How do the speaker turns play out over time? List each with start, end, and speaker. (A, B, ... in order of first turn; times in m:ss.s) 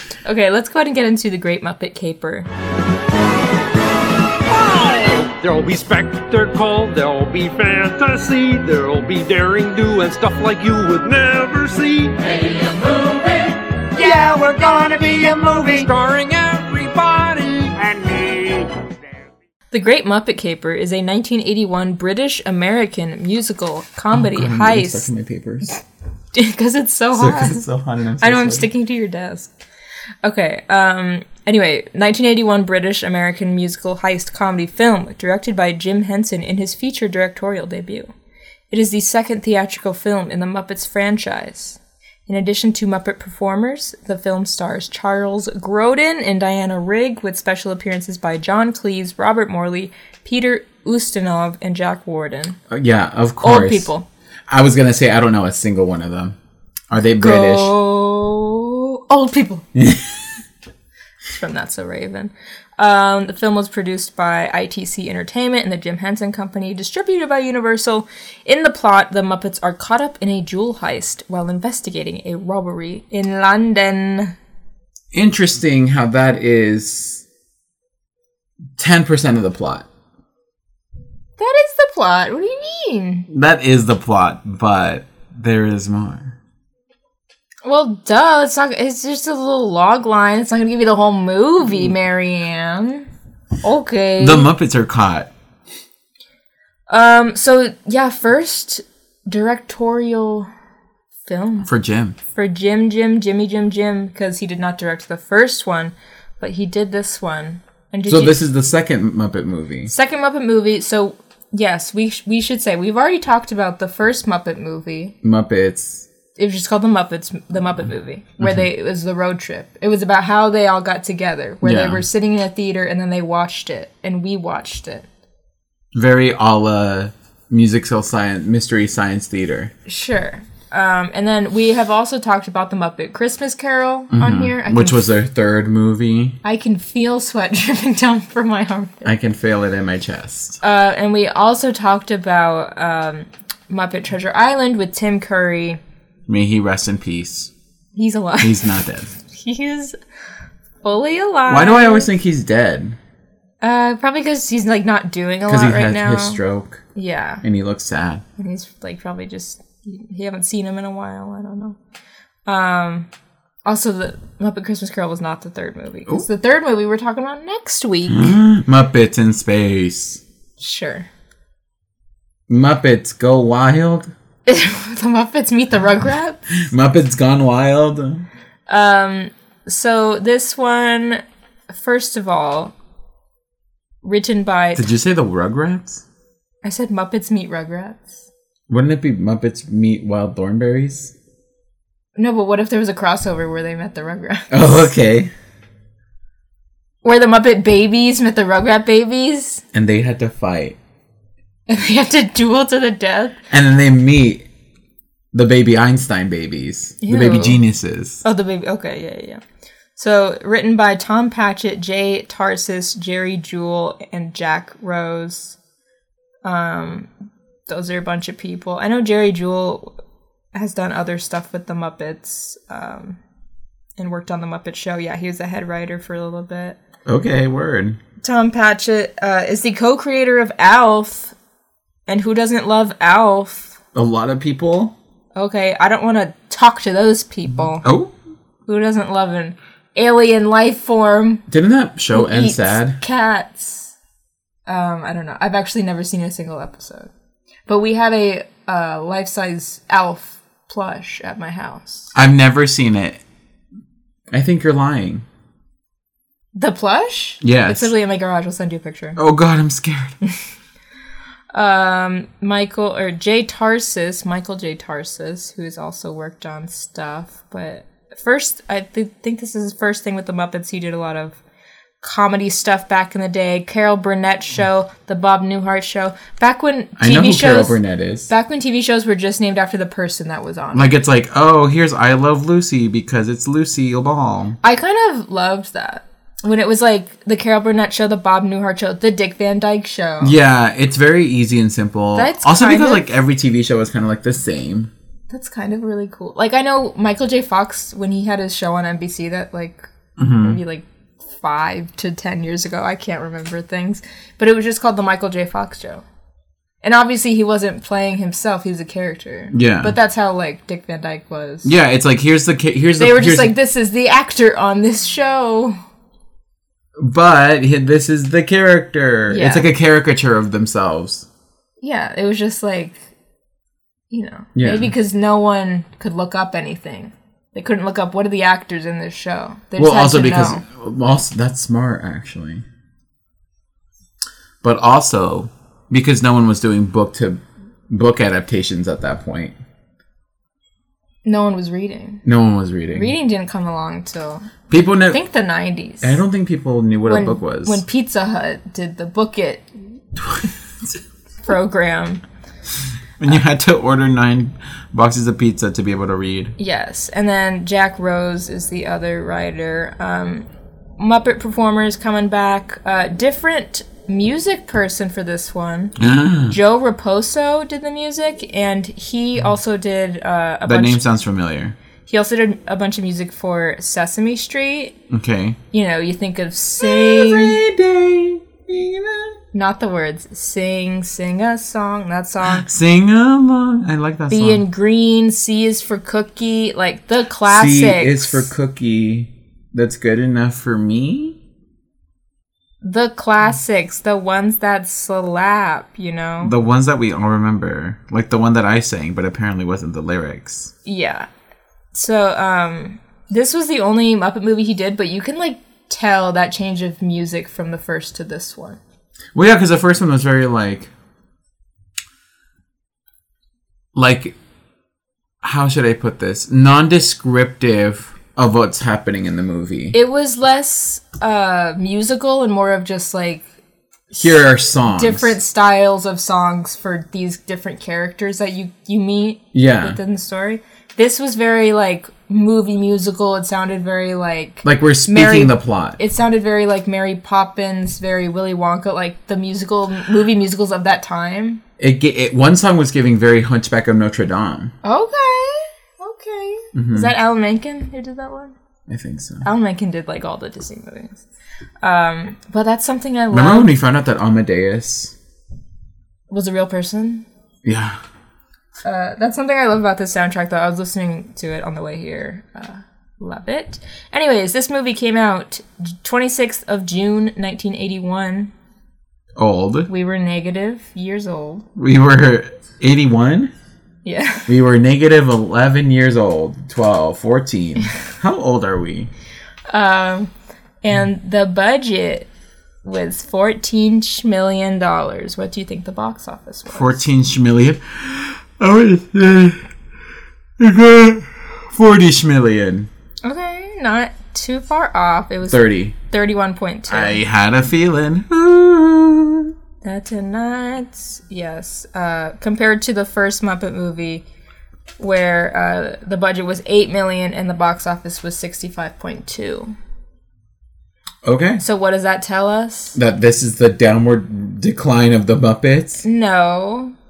0:00.3-0:02.5 A
0:04.4-0:18.9 B
0:19.7-0:25.1 A
0:24.1-0:25.7 C
0:26.3-0:27.6 A
0:27.1-0:28.7 C
0:28.2-0:29.5 A
0:30.2-0:38.1 A
0:38.7-0:52.6 A
0:52.7-0:53.9 C
0:53.4-0:54.1 A
0:54.5-0:56.4 C
0:56.9-0:57.7 C
0:57.2-0:59.7 A
0:59.8-1:00.1 C
1:01.3-1:14.4 A
1:15.1-1:17.2 C
1:18.8-1:19.9 C
1:21.4-1:23.3 A
1:23.3-1:26.4 C
1:27.6-1:33.1 A
1:33.6-1:34.5 A
1:34.2-1:35.3 C
1:36.9-1:40.5 A
1:41.3-1:41.7 A
1:41.6-1:42.2 C
1:42.3-1:48.4 A
1:48.1-1:49.9 C
1:49.9-1:55.2 A
1:55.2-1:56.1 C
1:56.4-2:05.1 A
2:01.6-2:02.0 C
2:05.9-2:09.7 C
2:09.9-2:15.1 A
2:14.1-2:16.4 C
2:16.4-2:19.1 A
2:19.0-2:20.6 C
2:20.6-2:25.8 A
2:26.3-2:27.5 C
2:28.0-2:28.7 A
2:28.4-2:29.1 C
2:29.2-2:30.0 A
2:30.8-2:32.1 A
2:31.5-2:33.0 C
2:33.6-2:36.4 A
2:35.5-2:36.8 C
2:37.0-2:37.4 A
2:37.4-2:38.2 C
2:38.4-2:41.8 A
2:42.5-2:43.1 A
2:43.6-2:48.4 A
2:48.1-2:50.2 C
2:50.6-2:51.1 A
2:52.5-2:54.1 C
2:54.5-2:56.6 A
2:56.7-2:58.3 C
2:58.7-3:02.7 A
3:04.0-3:04.9 A
3:04.8-3:06.0 C
3:06.6-3:08.3 A
3:08.7-3:11.1 C
3:12.2-3:14.9 A
3:14.5-3:15.3 C
3:17.0-3:19.6 A
3:19.7-3:20.8 C
3:21.7-3:23.4 A
3:23.5-3:24.5 C
3:25.3-3:28.2 C
3:27.0-3:27.6 A
3:28.2-3:29.4 A
3:30.0-3:35.6 A
3:36.4-3:37.1 A
3:37.7-3:39.9 A
3:40.5-3:43.2 A
3:44.0-3:46.8 A
3:47.1-3:48.0 C
3:48.2-3:51.4 A
3:52.1-3:53.8 A
3:53.9-3:55.0 C
3:55.4-3:57.9 A
3:57.8-3:58.1 C
3:58.7-4:01.4 A
4:01.5-4:03.0 C
4:02.1-4:03.9 A
4:04.7-4:07.1 A
4:07.7-4:12.1 A
4:12.1-4:13.2 C
4:14.3-4:15.2 C
4:16.6-4:19.2 A
4:17.4-4:17.9 C
4:19.2-4:20.2 C
4:21.5-4:31.4 A
4:32.0-4:40.9 A
4:37.0-4:38.3 C
4:40.7-4:44.6 C
4:44.6-4:50.4 A
4:50.2-4:54.9 C
4:52.2-4:53.1 A
4:55.3-5:06.0 A
5:00.2-5:00.6 C
5:06.8-5:11.7 A
5:09.5-5:10.0 C
5:11.6-5:13.5 C
5:13.0-5:15.8 A
5:17.0-5:21.3 C
5:19.3-5:19.7 A
5:21.8-5:23.0 A
5:24.1-5:30.6 A
5:24.6-5:24.9 C
5:29.8-5:32.6 C
5:34.6-5:39.6 C
5:41.2-5:42.2 A
5:42.2-5:43.1 C
5:42.9-5:44.5 A
5:44.7-5:45.2 C
5:45.1-5:46.2 A
5:46.0-5:47.8 C
5:47.1-5:49.7 A
5:51.4-5:52.2 A
5:53.2-5:56.6 C
5:56.6-6:00.5 A
6:01.0-6:06.0 A
6:06.0-6:06.6 C
6:06.5-6:11.0 A
6:10.7-6:11.8 C
6:12.1-6:15.0 A
6:15.1-6:15.6 C
6:15.7-6:17.6 A
6:16.8-6:19.4 C
6:19.5-6:22.7 A
6:22.4-6:24.6 C
6:24.3-6:28.5 A
6:27.5-6:31.4 C
6:32.8-6:36.5 A
6:36.4-6:40.7 C
6:40.8-6:41.3 A
6:41.9-6:48.8 A
6:49.4-6:50.9 C
6:54.0-6:54.4 C
6:55.4-7:00.0 C
6:59.9-7:03.5 A
7:04.1-7:05.3 C
7:04.9-7:21.6 A
7:09.5-7:10.0 C
7:14.6-7:16.0 C
7:21.8-7:24.7 C
7:24.8-7:28.6 A
7:26.7-7:27.1 C
7:28.9-7:29.4 C
7:29.4-7:31.2 A
7:31.8-7:33.7 A
7:33.3-7:35.2 C
7:36.3-7:37.3 A
7:37.6-7:38.0 C
7:38.8-7:48.5 A
7:49.4-7:49.9 C
7:49.9-7:51.7 A
7:51.8-7:53.5 C
7:54.0-7:54.5 A
7:54.5-7:59.1 C
7:59.7-8:00.3 A
8:00.8-8:02.3 A
8:02.8-8:07.0 A
8:06.7-8:09.6 C
8:10.6-8:12.9 C
8:13.2-8:17.2 A
8:15.5-8:16.0 C
8:16.9-8:19.5 C
8:19.8-8:24.2 A
8:25.0-8:29.8 A
8:31.2-8:31.6 C
8:31.6-8:33.0 A
8:33.0-8:36.0 C
8:36.0-8:36.9 A